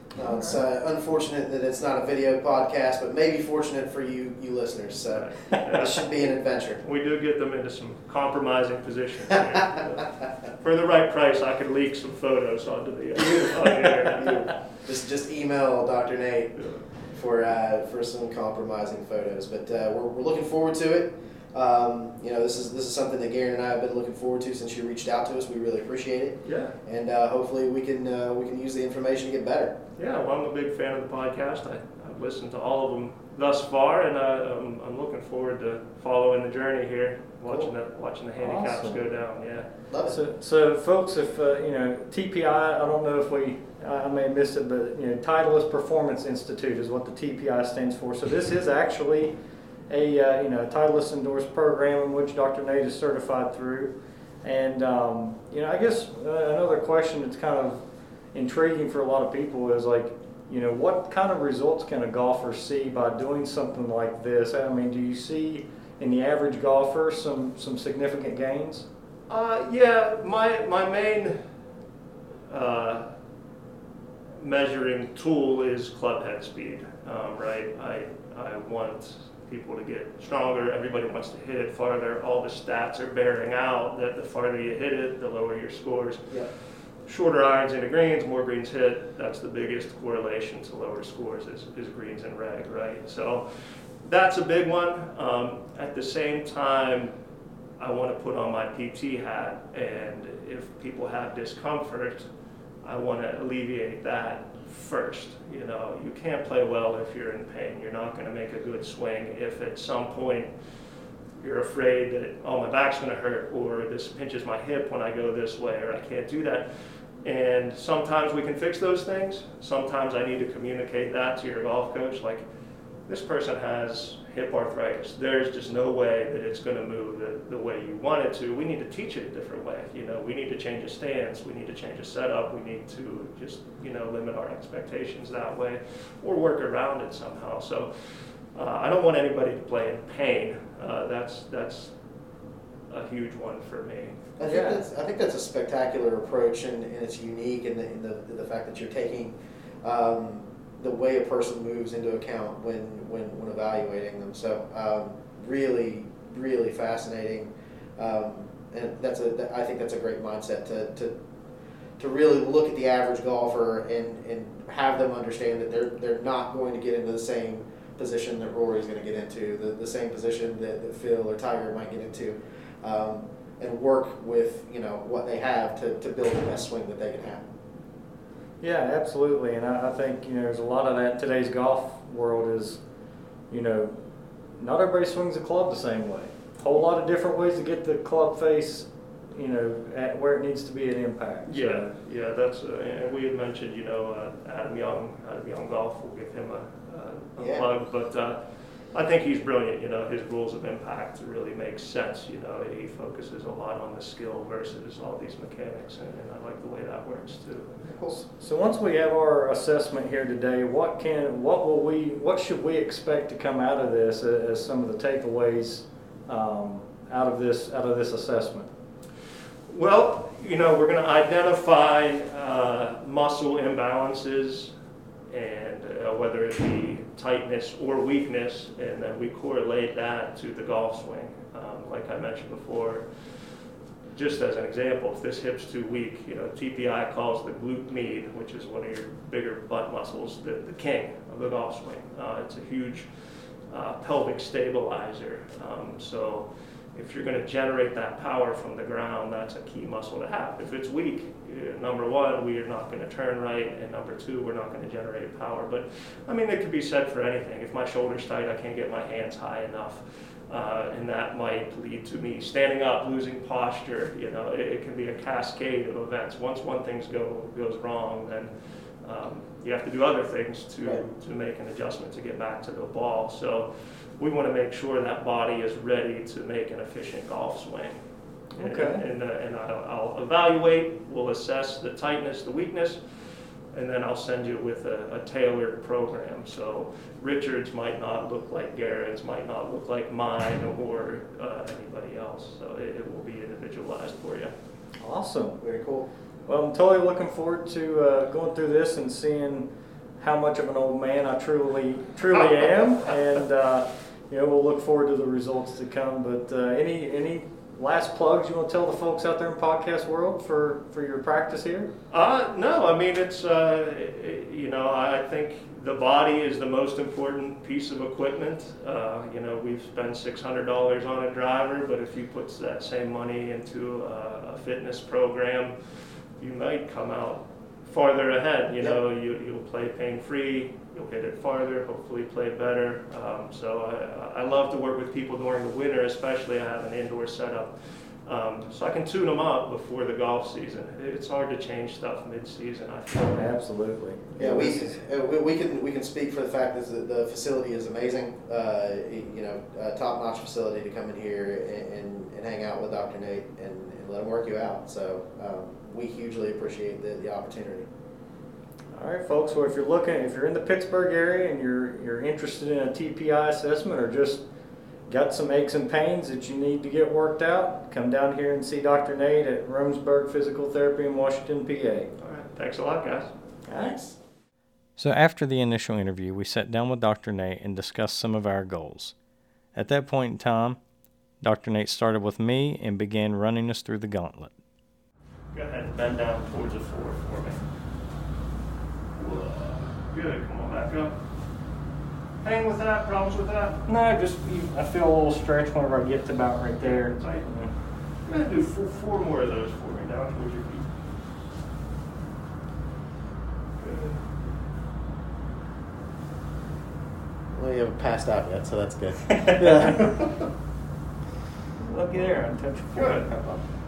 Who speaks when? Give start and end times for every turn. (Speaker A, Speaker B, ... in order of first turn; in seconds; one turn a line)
Speaker A: 0.1-6.8
Speaker B: 5.0-14.6
Speaker A: 14.1-29.8
Speaker B: 16.5-16.9
Speaker B: 26.4-26.7
Speaker B: 30.0-39.7
Speaker C: 38.4-39.0
Speaker A: 39.9-40.2
Speaker C: 40.0-49.4
Speaker C: 49.9-68.9
Speaker B: 69.3-71.5
Speaker B: 72.5-73.2
Speaker B: 74.4-97.2
Speaker B: 97.8-102.3
Speaker B: 102.8-122.5
Speaker B: 123.0-142.0
Speaker B: 142.9-144.2
Speaker A: 144.4-161.1
Speaker C: 144.4-144.8
Speaker A: 162.0-177.4
Speaker C: 178.6-182.8
Speaker C: 183.5-184.0
Speaker C: 184.6-191.9
Speaker B: 191.4-207.9
Speaker A: 197.4-197.7
Speaker A: 207.9-208.1
Speaker C: 208.1-218.7
Speaker B: 219.7-224.7
Speaker B: 225.3-294.5
Speaker C: 278.6-279.0
Speaker C: 295.0-295.6
Speaker A: 295.6-296.1
Speaker C: 296.4-311.9
Speaker B: 302.3-303.2
Speaker B: 312.1-343.6
Speaker C: 343.2-344.8
Speaker A: 344.4-357.9
Speaker B: 344.4-344.8
Speaker C: 358.9-364.5
Speaker C: 365.1-372.1
Speaker B: 372.2-373.3
Speaker C: 373.6-374.1
Speaker C: 375.0-379.1
Speaker C: 379.7-380.8
Speaker C: 381.4-384.5
Speaker B: 385.5-387.6
Speaker B: 389.1-391.2
Speaker B: 392.4-393.8
Speaker C: 393.9-397.7
Speaker B: 396.8-397.5
Speaker B: 398.2-400.9
Speaker B: 403.8-404.3
Speaker A: 407.5-410.3
Speaker C: 409.3-410.2
Speaker B: 411.8-413.3
Speaker C: 411.9-413.6